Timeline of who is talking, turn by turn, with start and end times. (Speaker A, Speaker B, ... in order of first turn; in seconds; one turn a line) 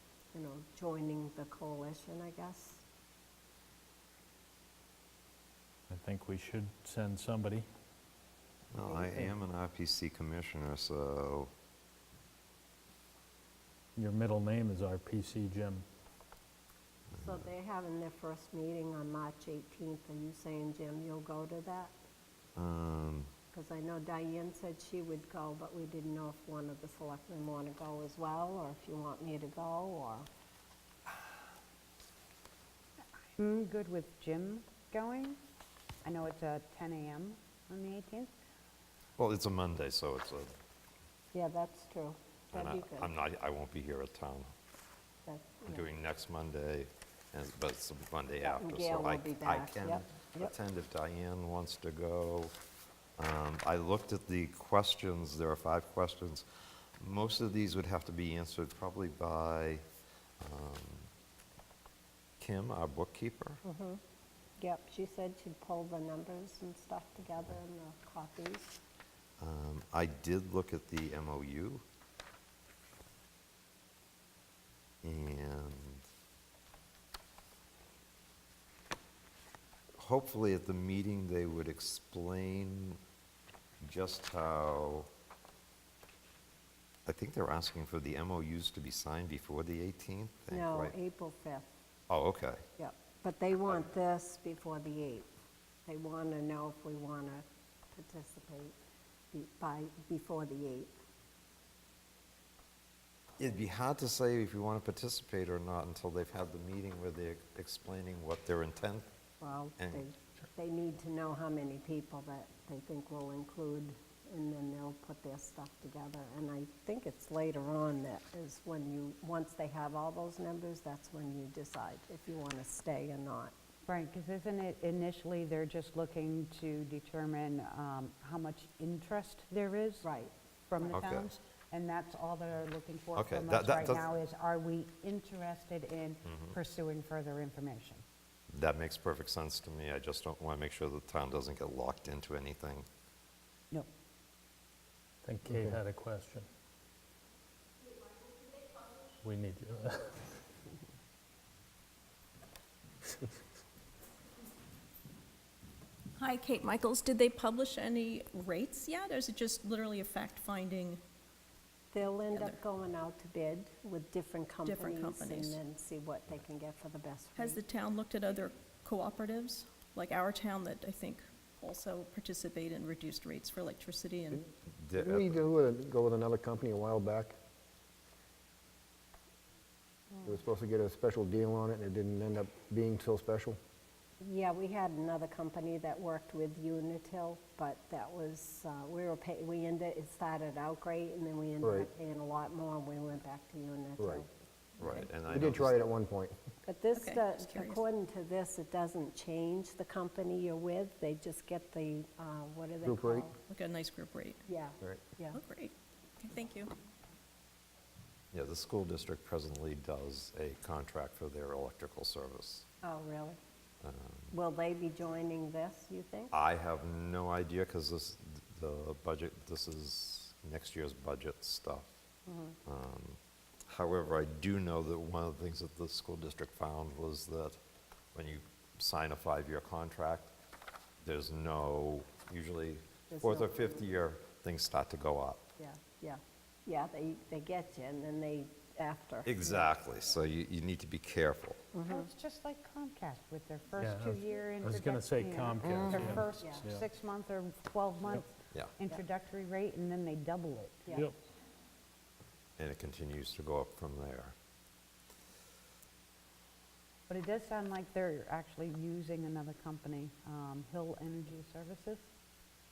Speaker A: 0.3-2.8
Speaker B: 5.9-7.7
Speaker C: 8.7-11.5
Speaker A: 8.8-9.3
Speaker B: 13.9-15.8
Speaker C: 17.2-17.4
Speaker A: 17.2-21.9
Speaker C: 22.6-23.3
Speaker A: 23.5-30.3
Speaker D: 33.4-35.4
Speaker D: 36.0-38.3
Speaker C: 39.2-40.5
Speaker A: 41.3-43.1
Speaker C: 42.5-44.5
Speaker A: 45.2-45.9
Speaker C: 45.7-52.5
Speaker A: 48.4-50.5
Speaker C: 53.2-56.4
Speaker C: 57.0-59.8
Speaker C: 60.4-61.1
Speaker C: 62.4-63.6
Speaker A: 63.6-64.0
Speaker A: 64.6-68.7
Speaker C: 69.4-71.8
Speaker C: 75.0-76.1
Speaker C: 80.0-83.0
Speaker C: 83.8-85.1
Speaker C: 87.1-91.0
Speaker A: 90.5-91.7
Speaker C: 92.1-92.6
Speaker A: 92.8-95.3
Speaker A: 95.8-98.8
Speaker A: 99.3-101.0
Speaker C: 103.4-109.1
Speaker A: 109.4-123.5
Speaker C: 109.8-110.0
Speaker D: 123.9-130.1
Speaker A: 130.0-131.0
Speaker D: 130.7-138.0
Speaker C: 130.9-131.3
Speaker C: 133.1-134.1
Speaker C: 136.2-136.6
Speaker C: 138.5-142.9
Speaker B: 145.2-146.5
Speaker E: 145.5-145.7
Speaker B: 149.2-150.2
Speaker F: 156.2-161.0
Speaker A: 161.9-167.6
Speaker F: 164.6-165.6
Speaker F: 167.3-174.4
Speaker C: 174.8-175.4
Speaker E: 175.0-177.3
Speaker E: 180.2-183.6
Speaker A: 184.2-194.3
Speaker E: 191.6-191.9
Speaker E: 194.0-194.2
Speaker C: 194.8-195.8
Speaker E: 195.3-196.4
Speaker A: 196.6-203.4
Speaker F: 196.9-197.8
Speaker E: 202.8-203.3
Speaker F: 203.5-204.4
Speaker A: 204.5-205.4
Speaker F: 205.3-206.7
Speaker C: 208.3-212.7
Speaker A: 212.8-213.4
Speaker C: 213.8-214.3
Speaker A: 214.3-216.3
Speaker C: 216.3-221.9
Speaker A: 222.2-222.6
Speaker C: 222.6-227.6
Speaker C: 228.1-230.3
Speaker C: 231.0-235.4
Speaker A: 233.1-233.8
Speaker A: 235.6-239.7
Speaker C: 239.2-241.7
Speaker A: 241.7-242.1
Speaker D: 241.8-250.9
Speaker B: 243.8-246.8
Speaker A: 246.4-246.6
Speaker C: 252.6-254.3
Speaker D: 257.1-262.1